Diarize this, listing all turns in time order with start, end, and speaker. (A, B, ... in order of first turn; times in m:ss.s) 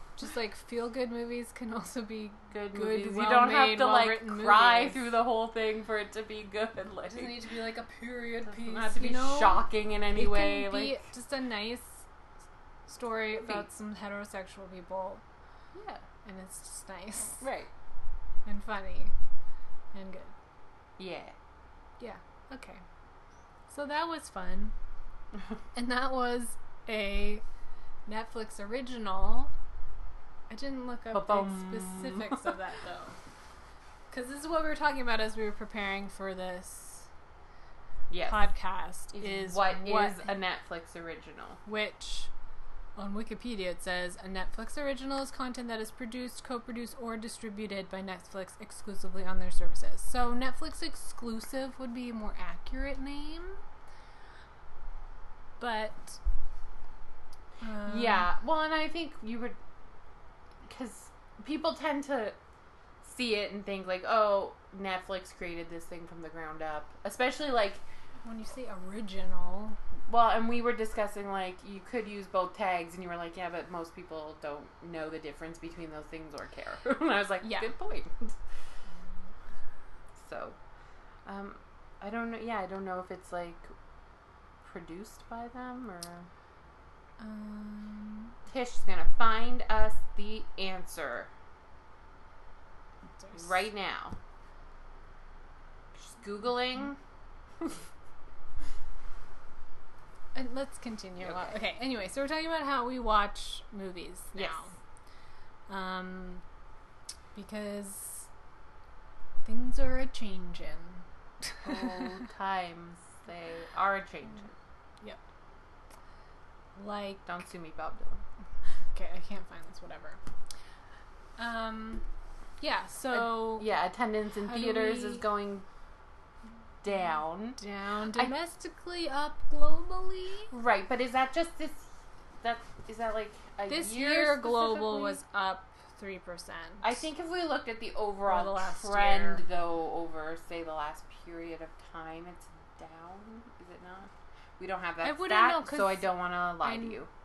0:00.2-0:05.0 A
0:02.5-0:07.3 B
0:07.1-0:12.1 A
0:08.4-0:11.0 B
0:12.9-0:15.2 A
0:13.3-0:13.7 B
0:15.7-0:16.0 B
0:16.2-0:17.4 A
0:17.4-0:17.7 B
0:18.4-0:19.1 A
0:19.9-0:20.3 A
0:21.0-0:21.3 B
0:22.0-0:22.8 A
0:23.7-0:24.7 A
0:25.7-0:27.4 A
0:28.1-0:29.5 A
0:30.5-0:33.2 A
0:31.1-0:32.5 B
0:34.1-0:37.1 A
0:38.1-0:38.4 B
0:38.2-0:40.3 A
0:39.1-0:41.6 B
0:41.6-0:42.3 A
0:43.0-0:53.6 A
0:55.6-0:56.2 A
0:57.6-0:58.3 A
0:57.8-0:59.6 B
1:00.7-1:02.4 B
1:03.0-1:07.8 B
1:08.2-1:09.8 A
1:10.1-1:18.4 B
1:17.4-1:17.7 A
1:20.1-1:20.6 B
1:21.2-1:23.7 B
1:24.6-1:26.3 B
1:27.2-1:28.3 A
1:28.5-1:31.3 B
1:33.3-1:34.2 B
1:35.9-1:37.0 B
1:40.3-1:44.7 A
1:41.2-1:41.5 B
1:44.3-1:44.6 B
1:45.7-1:46.4 A
1:47.3-1:48.3 A
1:49.4-1:52.1 A
1:51.6-1:54.5 B
1:56.8-1:57.2 A
1:57.2-1:58.2 B
1:58.8-2:00.2 A
2:01.4-2:02.0 A
2:02.6-2:03.7 A
2:03.1-2:05.6 B
2:04.4-2:05.2 A
2:06.8-2:07.6 B
2:07.6-2:10.5 A
2:10.5-2:11.9 B
2:12.4-2:15.2 B
2:13.7-2:17.0 A
2:16.8-2:27.1 B
2:18.3-2:19.4 A
2:25.0-2:26.1 A
2:26.6-2:27.0 A